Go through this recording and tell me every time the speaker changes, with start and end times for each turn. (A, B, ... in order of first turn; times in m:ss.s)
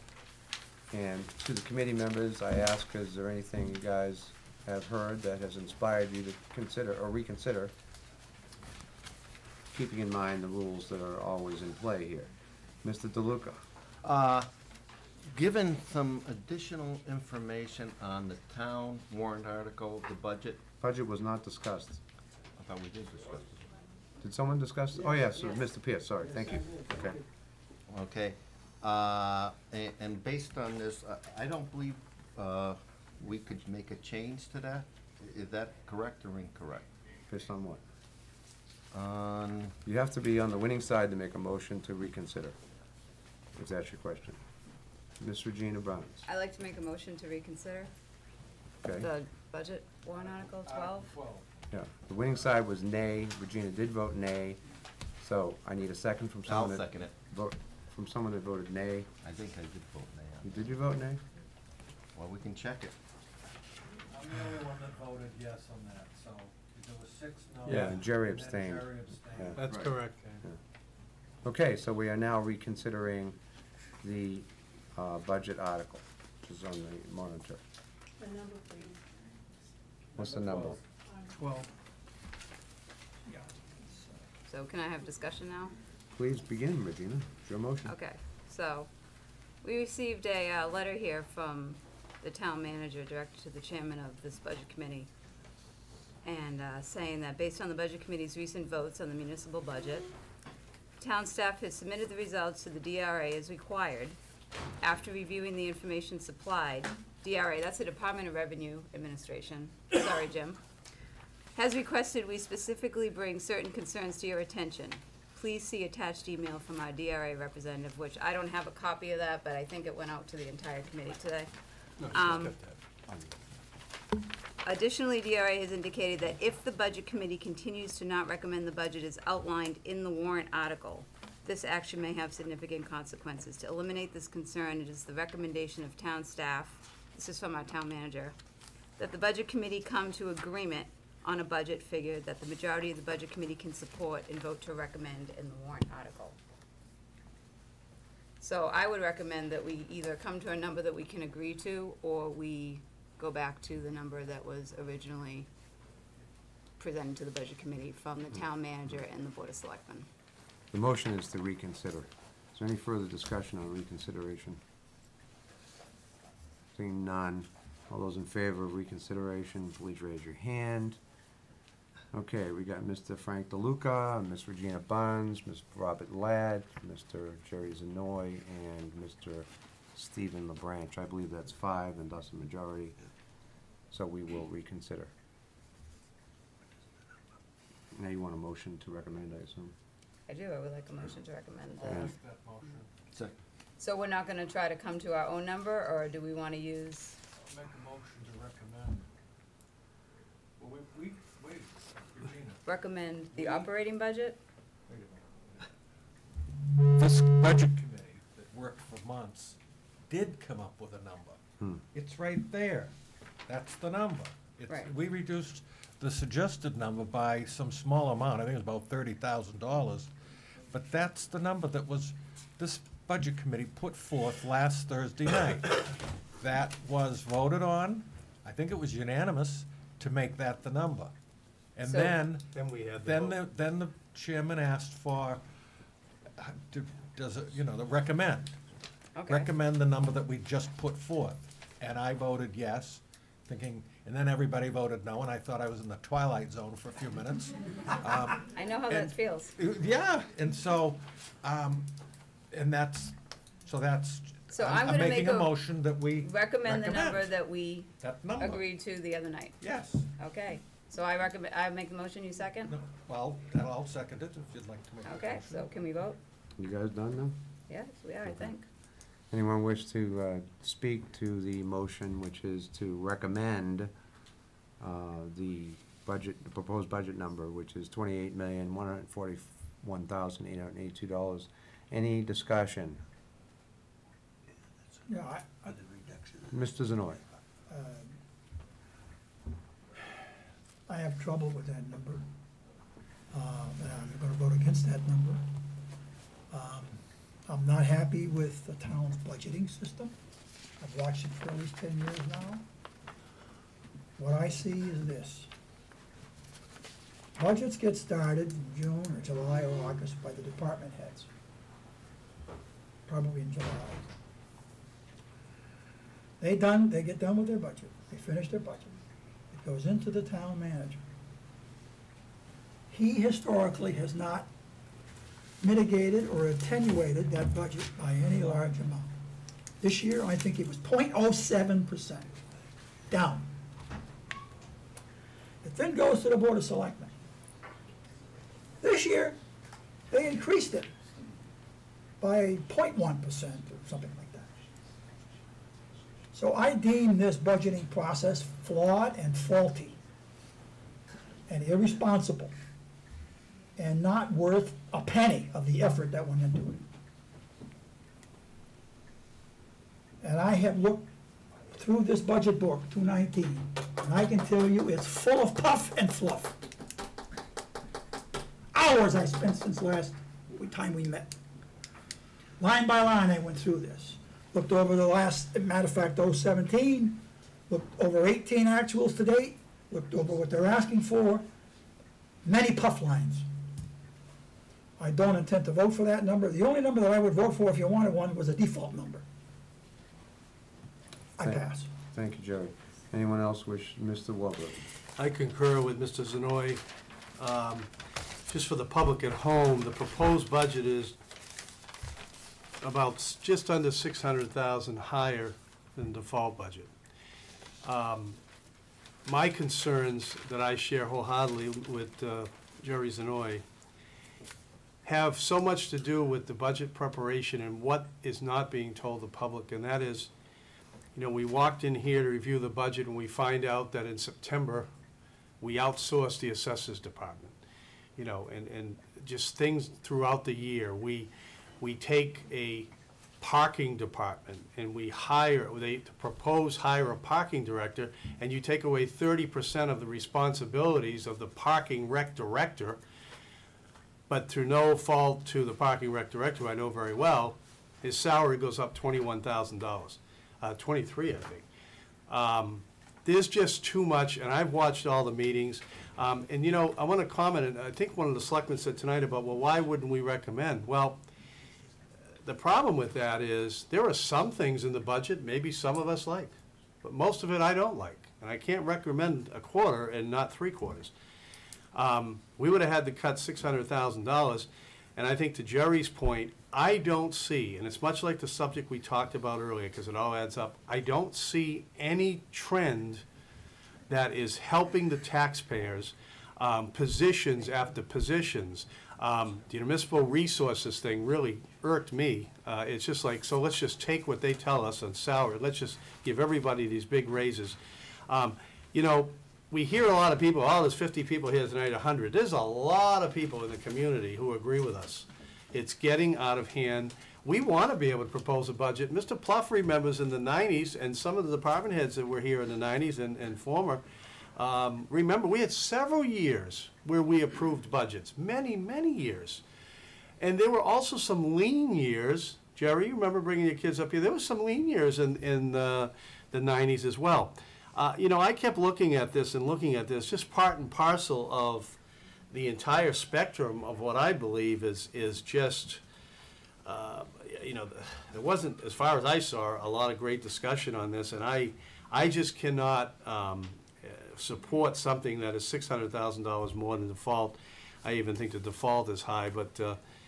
0:00.9-0:07.7 A
0:09.7-0:12.3 A
0:12.8-0:13.6 A
0:14.0-0:14.5 B
0:15.3-0:20.6 B
0:20.8-0:22.0 A
0:22.6-0:23.6 B
0:24.2-0:27.2 A
0:27.9-0:36.9 B
0:37.3-0:37.8 A
0:38.9-0:39.8 B
0:39.8-0:42.6 A
0:43.6-0:44.4 A
0:45.2-0:46.2 A
0:46.3-0:47.9 C
0:48.8-0:49.1 A
0:49.0-0:51.1 C
0:50.2-0:51.7 D
0:51.7-0:54.6 A
0:55.2-0:59.1 A
0:56.4-0:57.2 B
0:59.2-1:00.7 B
1:00.4-1:01.2 A
1:02.2-1:03.0 B
1:04.1-1:10.4 D
1:07.7-1:09.6 A
1:07.7-1:08.0 E
1:09.6-1:10.2 E
1:09.7-1:10.0 B
1:11.4-1:13.4 A
1:14.0-1:17.6 A
1:20.1-1:20.8 A
1:20.2-1:20.8 D
1:23.2-1:24.2 F
1:24.5-1:25.7 C
1:26.1-1:27.9 A
1:27.8-1:28.9 C
1:29.6-1:35.1 C
1:36.2-1:40.1 C
1:41.0-1:44.2 C
1:44.8-1:50.6 C
1:51.6-2:01.5 C
2:02.0-2:02.8 D
2:02.1-2:02.6 C
2:04.6-2:18.4 C
2:19.0-2:26.4 C
2:28.4-2:35.5 C
2:36.8-2:40.1 C
2:40.7-2:44.6 A
2:46.8-2:51.0 A
2:52.1-3:03.0 A
3:03.9-3:05.1 A
3:08.0-3:09.7 A
3:10.3-3:12.1 C
3:11.8-3:12.9 D
3:11.8-3:12.1 A
3:13.8-3:17.2 C
3:17.4-3:19.1 D
3:20.6-3:22.6 D
3:22.6-3:24.4 C
3:23.3-3:23.7 D
3:24.9-3:25.7 D
3:26.9-3:31.4 D
3:31.9-3:32.9 D
3:33.4-3:40.1 D
3:34.7-3:34.9 C
3:40.7-3:51.2 D
3:51.8-3:55.4 D
3:51.9-3:52.2 C
3:52.5-3:53.4 E
3:56.4-3:58.6 D
3:59.1-3:59.5 C
3:59.3-4:12.0 D
4:08.4-4:09.6 C
4:12.5-4:17.3 D
4:14.5-4:15.6 C
4:16.2-4:19.6 C
4:18.0-4:18.6 D
4:19.6-4:20.1 D
4:20.2-4:22.8 C
4:22.7-4:25.7 D
4:25.0-4:26.2 C
4:26.6-4:27.4 A
4:27.7-4:28.7 C
4:28.2-4:28.5 A
4:29.3-4:33.9 A
4:34.8-4:43.0 A
4:45.0-4:46.4 F
4:46.5-4:47.2 A
4:47.7-4:48.2 F
4:50.9-4:52.2 F
4:53.3-4:55.4 F
4:56.5-5:00.2 F
5:00.8-5:02.6 F
5:04.2-5:05.5 F
5:07.4-5:11.3 F
5:13.1-5:14.1 F
5:16.4-5:19.0 F
5:19.5-5:21.0 F
5:22.9-5:24.5 F
5:25.6-5:29.1 F
5:29.8-5:32.3 F
5:33.1-5:33.5 F
5:35.6-5:37.1 F
5:38.8-5:39.4 F
5:40.1-5:40.9 F
5:42.2-5:44.5 F
5:46.3-5:50.0 F
5:51.5-5:52.5 F
5:53.8-5:56.8 F
6:00.2-6:01.1 F
6:01.7-6:06.6 F
6:08.7-6:11.3 F
6:12.6-6:21.4 F
6:22.4-6:23.5 F
6:25.0-6:29.2 F
6:31.4-6:31.9 F
6:31.4-6:34.8 A
6:35.2-6:36.8 E
6:37.4-6:37.9 E
6:38.5-6:41.2 E
6:42.8-6:46.9 E
6:47.8-6:48.4 E
6:49.2-6:53.6 E
6:55.0-7:00.3 E
7:01.1-7:04.9 E
7:05.6-7:07.6 E
7:08.2-7:23.0 E
7:24.3-7:31.6 E
7:32.3-7:41.2 E
7:42.4-7:51.1 E
7:51.9-8:03.2 E
8:04.1-8:34.0 E
8:34.6-8:39.6 E
8:40.4-8:52.0 E
8:52.5-8:56.0 E
8:56.8-9:10.0 E